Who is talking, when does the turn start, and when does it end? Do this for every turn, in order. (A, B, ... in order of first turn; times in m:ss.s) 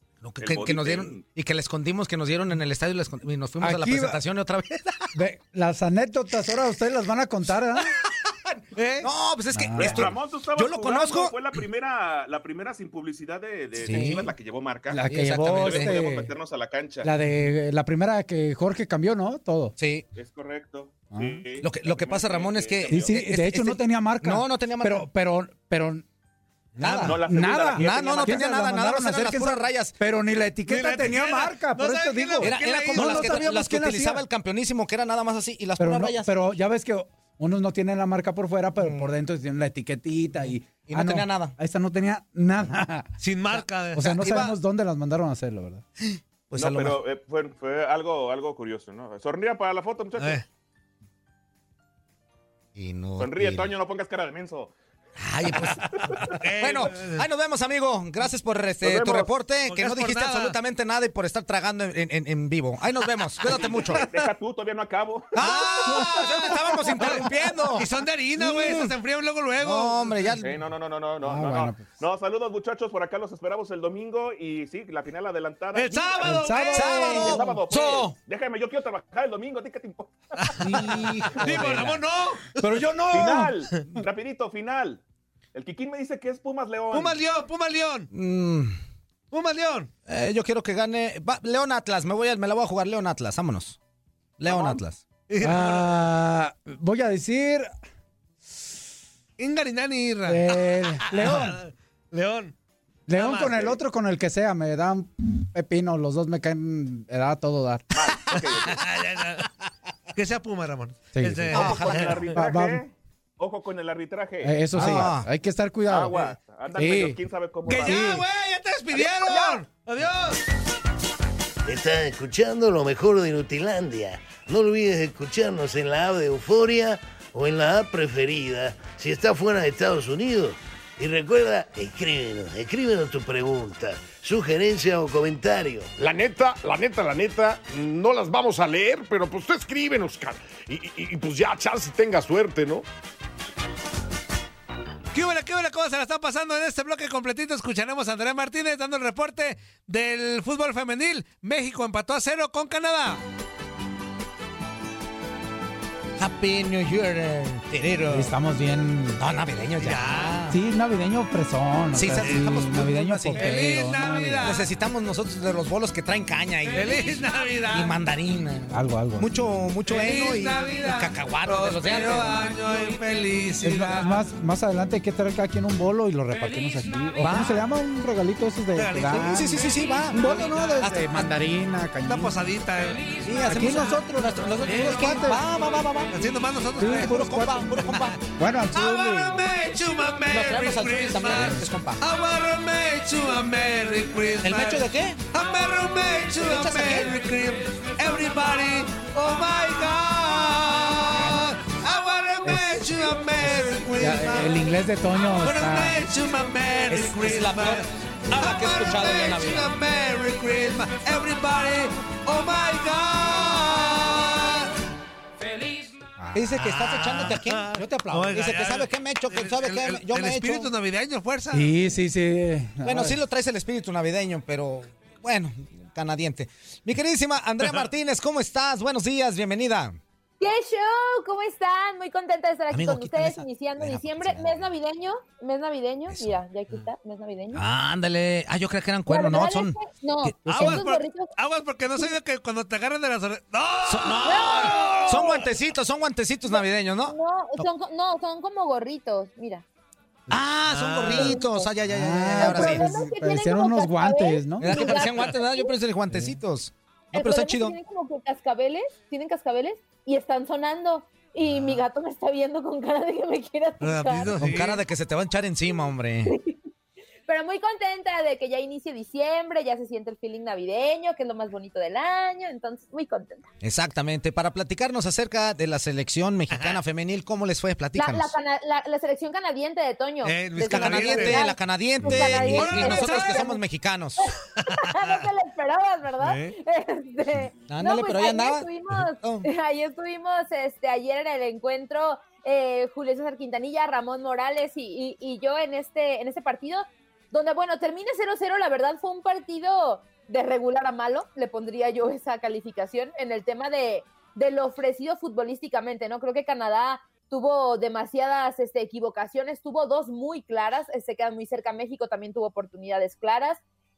0:00.2-0:05.1 A
0:00.4-0:01.2 B
0:03.6-0:04.2 C
0:05.1-0:07.9 C
0:07.8-0:11.4 A
0:08.7-0:09.1 D
0:09.5-0:10.1 C
0:09.8-0:17.1 B
0:13.8-0:14.3 A
0:14.9-0:16.3 C
0:15.0-0:16.0 A
0:17.0-0:19.7 C
0:19.8-0:20.1 A
0:20.1-0:23.2 B
0:21.1-0:21.4 C
0:21.6-0:25.0 A
0:22.9-0:26.0 C
0:26.8-0:34.2 C
0:26.8-0:30.0 A
0:27.0-0:28.5 B
0:30.7-0:33.5 D
0:32.4-0:36.3 A
0:35.8-0:43.2 C
0:38.8-0:39.1 A
0:40.9-0:41.5 A
0:43.2-0:44.1 D
0:43.9-0:45.8 C
0:44.0-0:44.5 A
0:46.0-0:47.0 A
0:46.5-0:50.4 B
0:50.2-0:50.4 D
0:52.7-0:53.7 A
0:53.2-0:54.7 B
0:55.2-1:04.0 A
0:55.9-0:56.4 B
0:56.4-0:57.2 D
0:58.8-0:59.3 B
0:59.7-1:00.6 D
1:03.4-1:04.3 D
1:03.5-1:06.1 B
1:05.4-1:08.9 A
1:05.4-1:10.4 D
1:09.6-1:10.6 A
1:10.4-1:20.6 B
1:11.2-1:11.9 C
1:15.7-1:17.4 D
1:16.2-1:17.6 C
1:16.7-1:18.2 A
1:20.4-1:22.7 D
1:20.6-1:22.0 A
1:20.6-1:21.9 C
1:22.6-1:23.5 C
1:23.1-1:25.0 B
1:25.5-1:27.2 B
1:26.9-1:28.1 D
1:28.1-1:28.8 A
1:29.3-1:29.9 D
1:30.0-1:33.8 A
1:34.4-1:35.0 A
1:34.5-1:34.8 B
1:35.3-1:35.9 D
1:35.4-1:37.7 C
1:39.4-1:42.5 D
1:40.2-1:41.6 C
1:43.1-1:47.9 C
1:43.2-1:43.7 D
1:47.9-1:48.8 B
1:48.3-1:49.5 D
1:50.1-1:52.3 D
1:51.1-1:51.8 C
1:51.5-1:52.3 A
1:51.6-1:55.1 B
1:52.3-1:52.8 C
1:54.4-1:57.2 C
1:54.7-1:55.3 A
1:55.9-1:58.2 B
1:57.6-2:00.4 D
1:57.8-1:58.2 C
1:59.0-1:59.6 B
2:01.6-2:15.9 E
2:16.0-2:22.9 F
2:25.1-2:33.2 D
2:36.2-2:38.3 A
2:38.1-2:39.2 C
2:39.2-2:40.6 A
2:39.8-2:40.5 D
2:40.5-2:44.6 C
2:41.9-2:43.5 A
2:42.1-2:42.6 D
2:43.4-2:44.6 D
2:44.4-2:47.2 A
2:46.7-2:48.0 D
2:47.7-2:52.5 A
2:48.7-2:49.4 C
2:49.9-2:54.2 D
2:53.6-3:02.4 C
2:57.2-2:57.6 A
2:58.7-3:00.6 D
2:59.1-3:01.3 A
3:02.0-3:03.2 D
3:03.2-3:06.1 A
3:03.4-3:05.4 C
3:04.7-3:05.2 D
3:06.1-3:07.3 D
3:06.8-3:09.4 C
3:06.8-3:08.2 A
3:08.7-3:24.6 D
3:10.3-3:12.0 A
3:14.4-3:15.2 A
3:16.4-3:17.1 A
3:22.4-3:22.9 C
3:24.0-3:26.0 C
3:25.4-3:34.7 D
3:26.9-3:29.7 A
3:36.2-3:36.6 C
3:36.3-3:40.7 A
3:36.6-3:41.7 D
3:37.8-3:38.2 C
3:41.5-3:43.2 C
3:42.8-3:50.0 A
3:47.6-3:47.9 D
3:50.4-3:57.6 G
3:52.7-3:54.7 A
3:56.1-3:56.4 A
3:57.5-4:00.9 A
3:59.1-4:01.3 G
4:00.4-4:05.5 D
4:03.8-4:07.7 A
4:04.2-4:05.2 G
4:06.5-4:09.6 G
4:10.3-4:12.9 A
4:10.6-4:11.4 D
4:11.1-4:11.7 G
4:11.9-4:14.9 C
4:12.4-4:15.7 G
4:14.6-4:17.8 A
4:16.1-4:16.4 C
4:17.1-4:24.4 G
4:21.4-4:21.8 A
4:23.8-4:24.8 D
4:24.4-4:26.4 A
4:26.2-4:26.6 G
4:27.3-4:33.5 G
4:33.6-4:38.4 A
4:36.5-4:36.8 D
4:37.9-4:43.6 G
4:40.2-4:41.5 D
4:40.6-4:44.3 A
4:42.1-4:43.5 D
4:44.2-5:13.6 G
4:44.6-4:45.2 D
4:46.2-4:46.5 D
4:47.6-4:49.5 A